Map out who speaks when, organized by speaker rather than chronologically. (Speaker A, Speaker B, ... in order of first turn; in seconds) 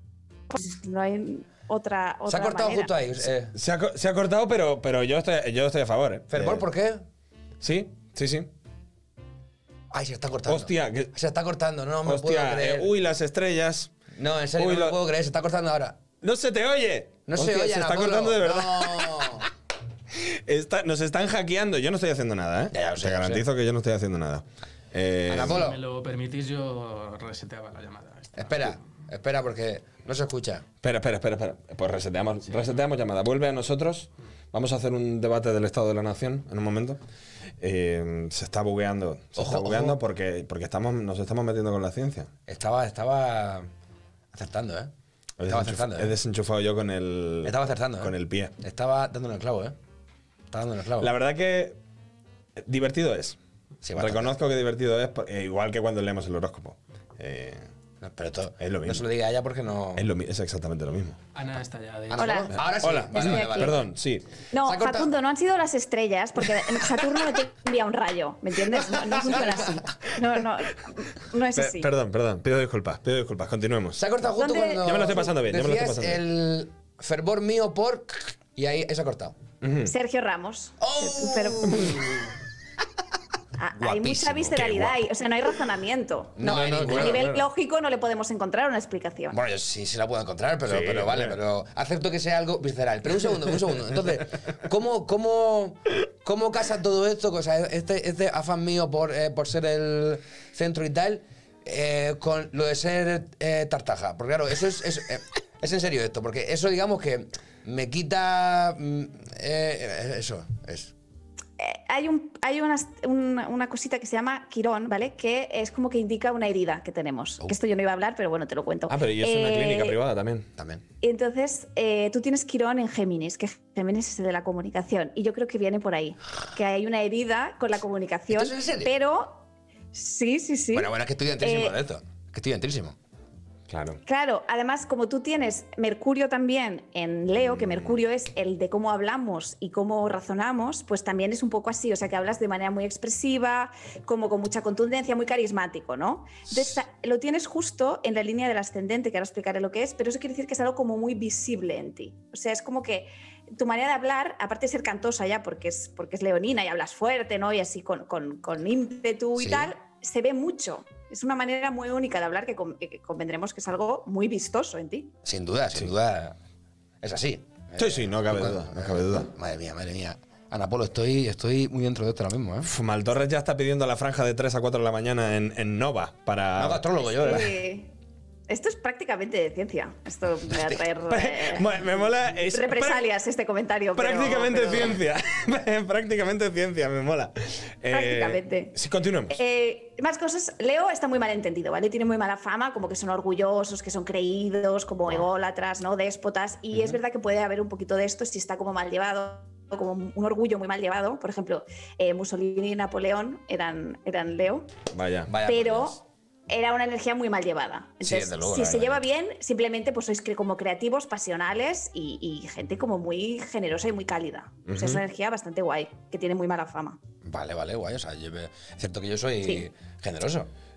Speaker A: 0.5-3.0, 62.2-62.5, 63.1-63.8, 64.5-71.9, 74.4-74.8, 79.8-82.0, 83.6-89.4, 111.6-120.0, 121.0-131.8, 134.1-165.2, 177.2-177.9, 178.5-181.9, 182.4-185.0, 187.9-188.8, 189.3-204.7, 205.4-217.0
Speaker B: 2.3-3.5, 6.3-7.0, 9.9-12.9, 14.2-16.0, 17.3-19.5, 22.7-23.5, 25.3-25.8, 28.4-30.6, 39.4-40.0, 42.5-43.7, 44.3-44.9, 45.5-46.1, 47.4-49.8, 50.5-51.1, 53.8-54.3, 58.0-60.1, 62.1-63.9, 64.6-65.1, 74.0-79.4, 80.8-82.2, 83.7-84.9, 86.4-87.4, 89.3-110.9, 120.6-120.8, 128.3-128.9, 130.7-133.0, 159.4-159.7, 165.2-166.4, 167.0-172.7, 176.6-177.6, 180.5-180.8, 205.3-206.0, 208.0-209.0, 217.2-220.5
Speaker C: 3.5-6.7, 7.6-8.5, 10.5-11.1, 12.1-13.9, 14.6-15.0, 16.2-19.5, 20.1-25.7, 30.8-37.0, 37.6-42.3, 45.4-48.5, 51.0-51.8, 52.6-53.4, 54.0-57.7, 58.6-59.1, 60.0-61.2, 62.6-64.3, 71.5-74.0, 74.8-76.2, 79.6-79.9, 84.5-84.9, 86.4-87.4, 90.7-91.4, 118.9-120.5, 133.7-134.0, 137.4-137.9, 167.8-169.3, 172.6-177.5, 181.1-183.1, 183.9-189.4, 204.9-205.3, 214.7-215.0
Speaker D: 25.4-28.8, 61.4-62.4